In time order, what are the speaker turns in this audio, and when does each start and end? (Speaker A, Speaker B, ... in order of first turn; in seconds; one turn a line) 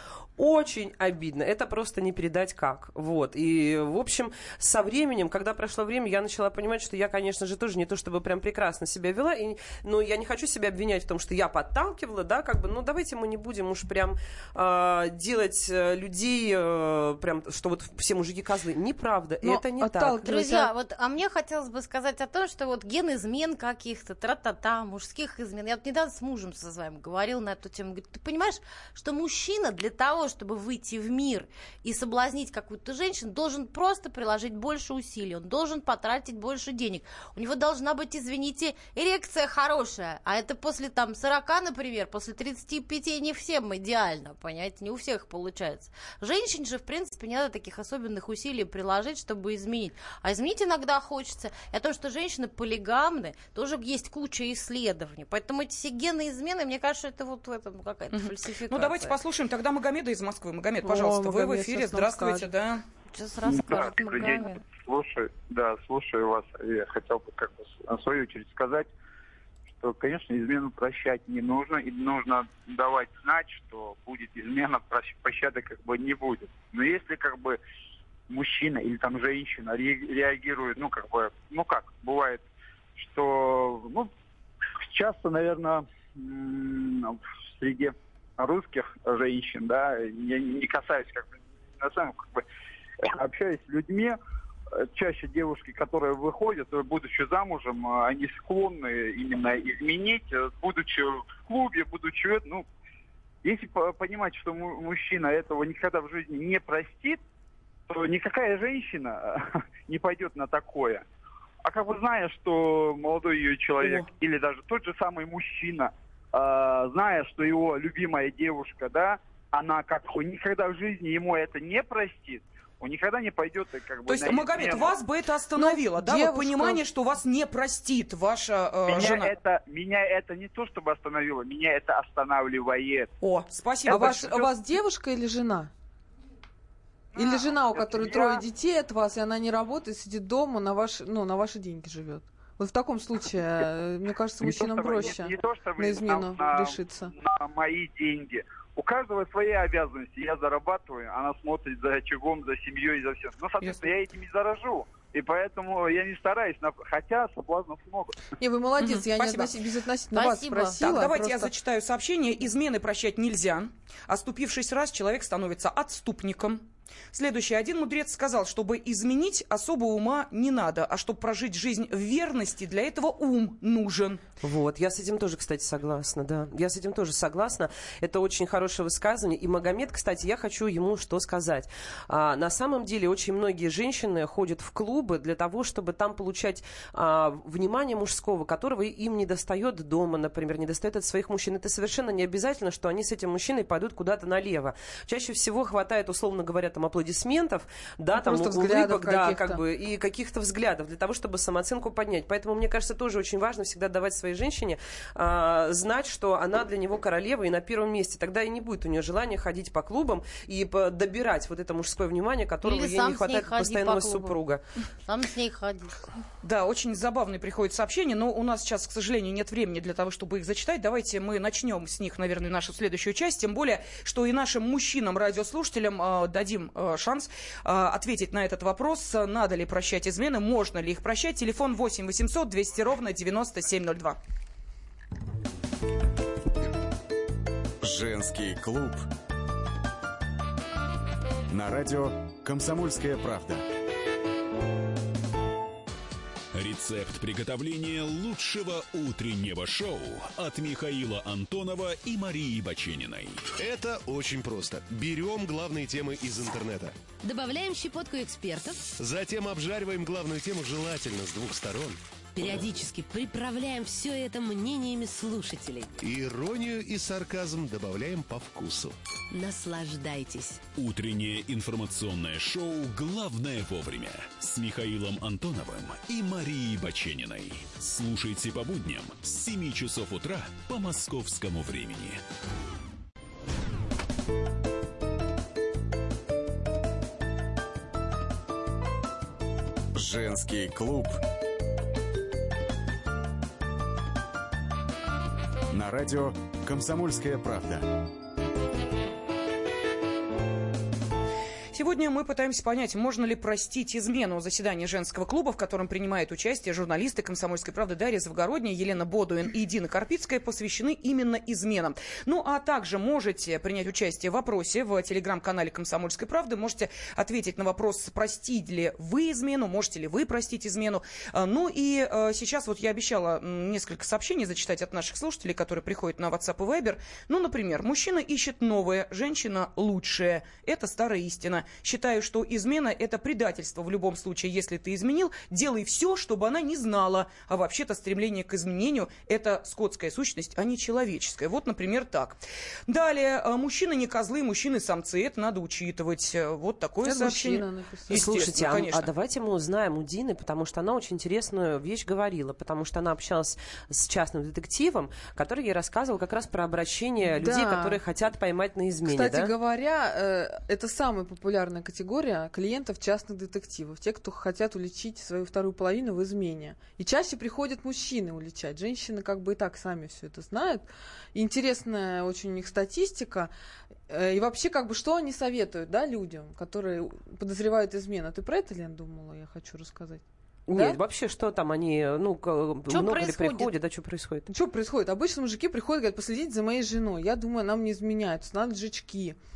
Speaker A: 0.4-20.2
Speaker B: 19.4-20.7
Speaker C: 20.2-59.2
Speaker D: 58.2-62.8
Speaker B: 60.8-62.5
Speaker C: 63.1-64.6
Speaker E: 63.5-68.9
Speaker E: 69.8-77.6
Speaker E: 78.3-82.4
Speaker E: 83.0-84.1
Speaker E: 84.8-92.4
Speaker E: 93.0-94.2
Speaker E: 94.9-102.7
Speaker E: 103.4-107.2
Speaker E: 107.9-109.4
Speaker E: 109.9-111.0
Speaker E: 111.7-124.9
Speaker D: 124.1-129.4
Speaker B: 125.6-126.8
Speaker E: 128.9-133.1
Speaker D: 133.2-134.3
Speaker E: 133.9-134.5
Speaker B: 133.9-135.7
Speaker B: 137.1-147.1
Speaker E: 137.2-138.4
Speaker E: 144.4-158.2
Speaker B: 158.4-161.5
Speaker D: 158.8-159.5
Speaker C: 160.1-160.9
Speaker D: 160.8-174.2
Speaker A: 174.4-214.6
Speaker B: 198.2-199.6
Speaker C: 212.6-214.4
Speaker C: 215.1-216.0
Speaker D: 216.4-234.2
Speaker F: 237.8-239.0
Speaker F: 241.5-243.6
Speaker G: 246.6-253.5
Speaker H: 253.6-257.0
Speaker I: 257.2-258.8
Speaker H: 259.0-262.0
Speaker I: 262.4-265.9
Speaker H: 266.0-268.9
Speaker I: 269.3-270.6
Speaker G: 270.7-282.2
Speaker F: 289.9-291.2
Speaker F: 295.7-297.9
Speaker D: 301.7-349.1
Speaker B: 347.0-348.3
Speaker A: 348.1-359.5
Speaker B: 357.4-358.0
Speaker B: 359.1-373.5
Speaker B: 374.1-380.2
Speaker A: 380.7-384.5
Speaker C: 382.9-383.7
Speaker B: 384.5-389.4